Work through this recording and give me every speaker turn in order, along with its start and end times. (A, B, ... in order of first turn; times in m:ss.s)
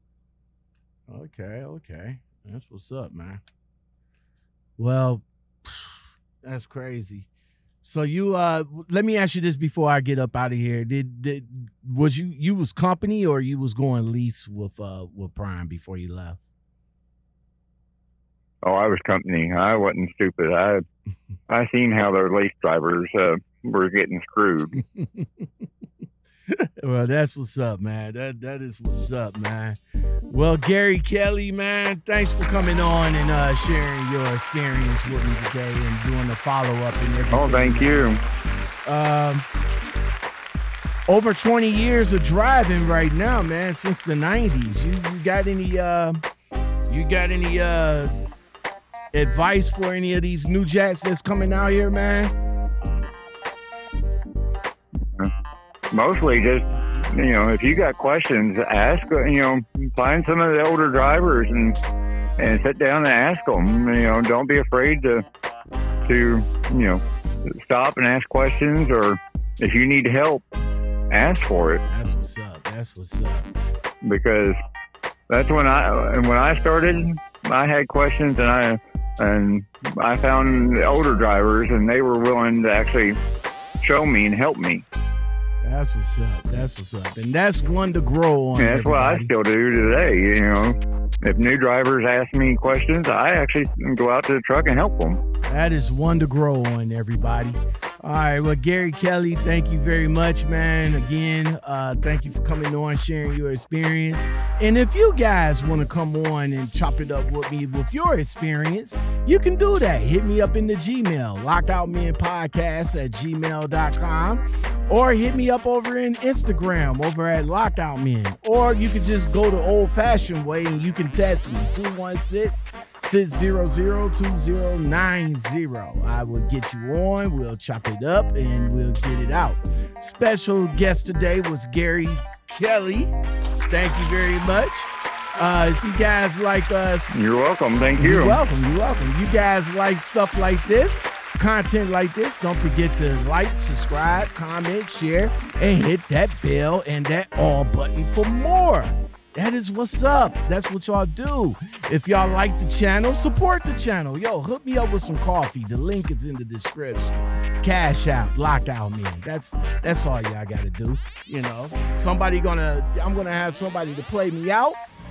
0:01.1-0:03.4 A
0:04.8-0:07.3 A
0:07.8-0:16.4 A
0:18.6-0:20.8 B
0:21.5-0:24.8 B
0:24.8-0:25.7 A
0:26.5-0:29.8 A
0:30.3-0:38.1 A
0:37.3-0:38.2 B
0:38.8-0:39.4 A
0:41.1-0:46.2 A
0:46.9-0:48.1 A
0:49.1-0:52.3 A
0:55.9-1:01.8 B
1:02.4-1:05.2 B
1:06.0-1:10.4 B
1:11.1-1:11.8 B
1:11.9-1:13.5 A
1:14.0-1:14.6 B
1:15.3-1:23.2 B
1:23.8-1:24.8 B
1:25.6-1:29.3 A
1:28.6-1:35.2 B
1:35.5-2:13.1 A
2:13.7-2:17.1 A
2:17.1-2:18.4 B
2:18.0-2:44.8 A